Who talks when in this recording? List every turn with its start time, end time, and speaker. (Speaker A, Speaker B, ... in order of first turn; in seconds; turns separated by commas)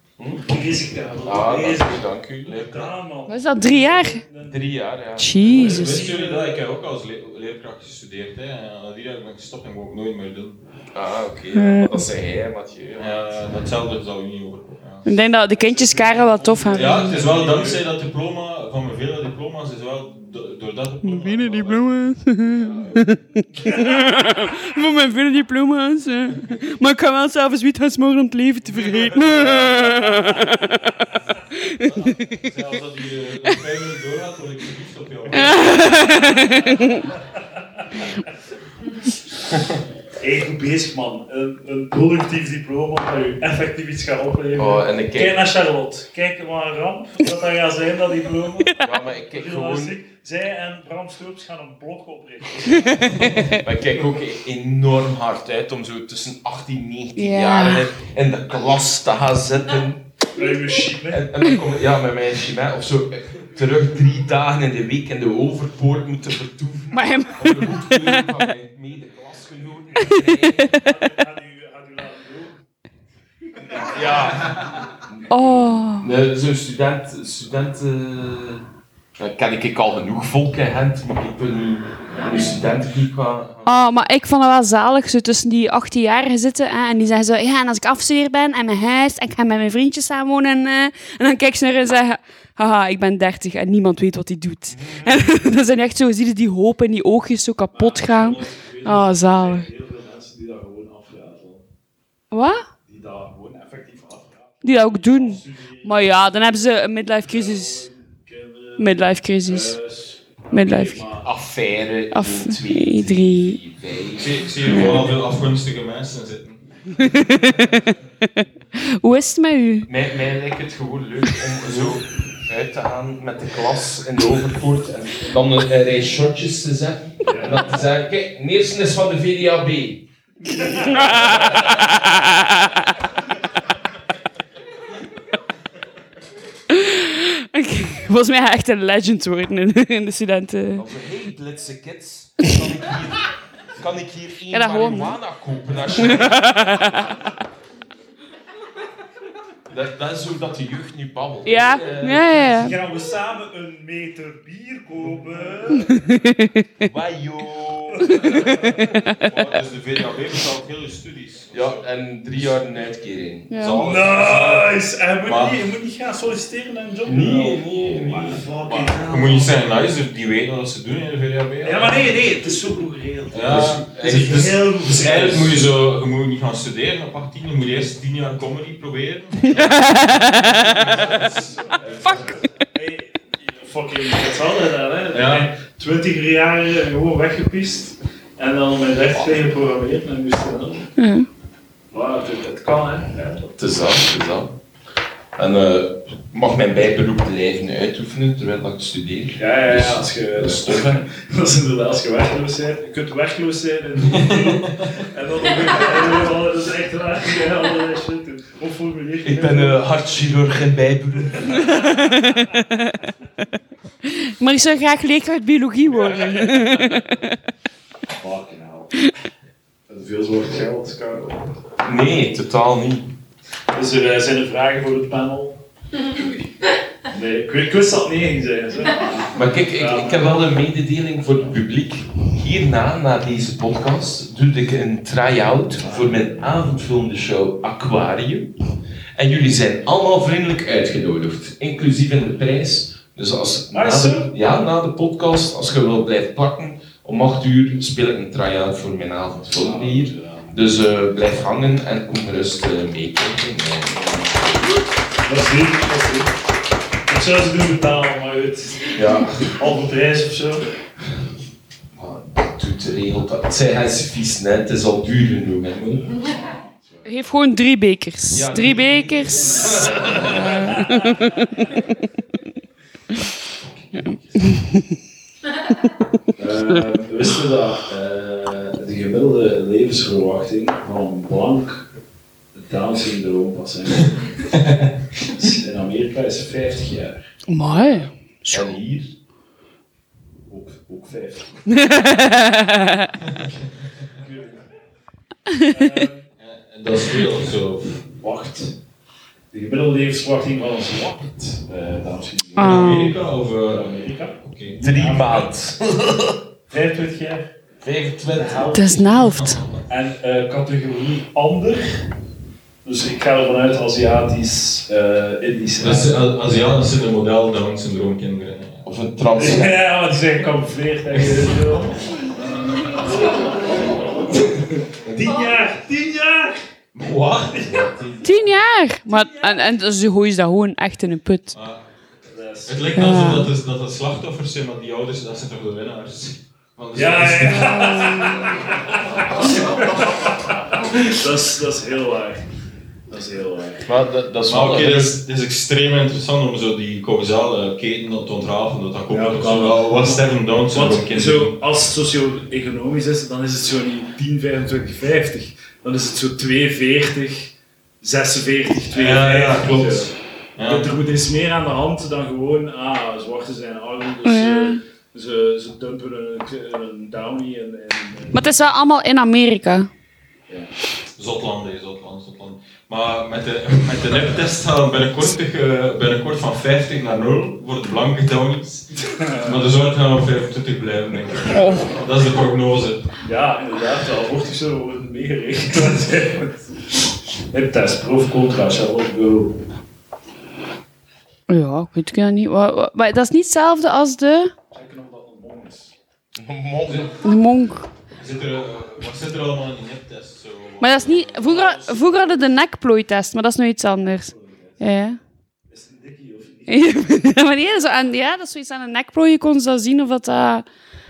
Speaker A: 0.2-0.4, Speaker B: 0.4-4.6, Speaker A: 1.2-2.9, Speaker C: 3.3-4.2, Speaker A: 4.4-5.7, Speaker C: 5.2-6.0, Speaker D: 5.4-10.6, Speaker B: 5.5-6.6, Speaker A: 10.9-13.4, Speaker C: 11.5-12.1, Speaker D: 12.9-15.0, Speaker C: 15.0-17.2, Speaker B: 15.5-17.9, Speaker D: 16.7-21.8, Speaker C: 21.0-32.4, Speaker D: 22.5-23.1, Speaker D: 28.6-30.2, Speaker D: 31.8-36.7, Speaker C: 35.3-37.0, Speaker B: 36.5-38.0, Speaker B: 40.2-53.6, Speaker A: 44.5-45.4, Speaker A: 48.8-50.0, Speaker D: 53.2-53.5, Speaker A: 53.3-60.0, Speaker C: 57.1-57.8, Speaker B: 60.3-61.3, Speaker A: 61.1-70.9, Speaker C: 66.9-68.3, Speaker C: 70.0-70.7, Speaker B: 70.5-72.6, Speaker B: 73.6-74.0, Speaker A: 73.7-78.6, Speaker C: 75.3-76.1, Speaker A: 79.2-83.7, Speaker C: 83.6-99.7, Speaker A: 94.7-95.2, Speaker B: 97.7-101.6, Speaker C: 102.3-102.7, Speaker B: 102.8-106.6, Speaker C: 104.6-107.9, Speaker B: 107.2-111.3, Speaker C: 108.8-109.7, Speaker C: 110.5-111.0, Speaker A: 111.2-114.9, Speaker C: 112.1-113.6, Speaker D: 114.2-117.0, Speaker C: 114.6-115.1, Speaker C: 117.0-119.9, Speaker A: 119.8-130.1, Speaker D: 121.6-122.0, Speaker B: 127.2-127.8, Speaker B: 130.5-131.1, Speaker A: 130.6-132.1, Speaker C: 130.7-132.8, Speaker C: 136.7-140.8, Speaker A: 140.8-146.6, Speaker C: 144.5-145.2, Speaker C: 146.0-147.0, Speaker A: 149.7-152.7, Speaker C: 151.4-152.7, Speaker B: 152.5-156.1, Speaker C: 156.0-156.7, Speaker A: 156.8-158.8, Speaker B: 158.0-158.8, Speaker C: 158.8-159.3, Speaker D: 158.8-162.8, Speaker A: 161.5-163.5, Speaker C: 163.5-163.8, Speaker D: 163.5-164.7, Speaker B: 163.8-169.6, Speaker D: 165.2-165.6, Speaker A: 167.1-168.9, Speaker D: 169.1-172.3, Speaker B: 171.6-175.6, Speaker D: 173.3-181.5, Speaker A: 173.5-175.5, Speaker C: 179.5-180.9, Speaker B: 181.0-190.9, Speaker A: 181.8-182.3, Speaker D: 185.1-185.5, Speaker C: 191.0-191.3, Speaker B: 191.9-193.5, Speaker A: 193.5-194.6, Speaker A: 195.3-201.1, Speaker B: 199.4-209.8, Speaker D: 204.0-205.0, Speaker A: 209.2-212.2, Speaker B: 211.4-212.3, Speaker C: 211.9-213.1, Speaker C: 214.1-217.3, Speaker B: 216.0-217.0, Speaker B: 218.2-219.0, Speaker B: 219.9-221.6, Speaker A: 221.8-223.1, Speaker B: 223.7-225.6, Speaker B: 227.1-230.4, Speaker A: 229.3-238.6, Speaker B: 235.8-236.2, Speaker A: 239.2-254.0, Speaker B: 243.7-244.3, Speaker B: 249.5-250.6, Speaker B: 253.9-254.7, Speaker B: 255.2-256.4, Speaker B: 257.1-260.7, Speaker A: 258.9-259.6, Speaker A: 262.0-266.1, Speaker B: 266.2-267.1, Speaker C: 267.0-271.4, Speaker A: 268.3-271.0, Speaker B: 273.8-274.4, Speaker C: 274.4-274.8, Speaker B: 276.4-281.9, Speaker B: 282.5-287.2, Speaker D: 284.5-284.9, Speaker C: 287.5-288.8, Speaker A: 288.5-289.1, Speaker B: 290.5-291.6, Speaker C: 291.7-293.1, Speaker D: 293.2-293.5, Speaker B: 294.1-294.7, Speaker C: 295.5-295.9, Speaker B: 295.5-296.2, Speaker D: 296.4-298.1, Speaker B: 298.2-298.8, Speaker B: 299.5-303.1, Speaker C: 302.6-303.2, Speaker D: 302.6-304.8, Speaker B: 303.6-305.5, Speaker A: 304.8-306.2, Speaker B: 306.7-307.5, Speaker A: 307.8-308.7, Speaker B: 308.3-309.1, Speaker C: 308.7-309.6, Speaker D: 309.2-309.6, Speaker B: 309.9-312.0, Speaker B: 312.8-316.3, Speaker D: 315.8-318.9, Speaker A: 318.8-319.8, Speaker B: 319.3-326.6, Speaker D: 321.1-321.7, Speaker D: 326.9-328.4, Speaker B: 327.5-328.1, Speaker C: 328.2-331.6, Speaker B: 329.1-329.6, Speaker D: 331.5-331.9, Speaker B: 332.3-333.2, Speaker D: 332.6-338.2, Speaker C: 332.9-333.5, Speaker B: 336.9-342.4, Speaker C: 337.7-338.4, Speaker B: 343.1-343.9, Speaker A: 343.9-345.1, Speaker D: 344.5-351.6, Speaker B: 349.1-368.4, Speaker D: 358.9-360.9, Speaker C: 364.2-364.8, Speaker C: 368.3-369.9, Speaker D: 371.1-383.1, Speaker B: 379.0-379.6, Speaker C: 381.5-381.9, Speaker B: 383.2-389.6, Speaker C: 391.5-394.5, Speaker B: 394.7-395.9, Speaker A: 396.3-397.2, Speaker D: 396.9-397.1, Speaker C: 397.2-397.9, Speaker D: 398.1-402.4, Speaker C: 400.8-405.2, Speaker B: 404.2-404.8, Speaker B: 405.7-407.0, Speaker C: 406.7-410.6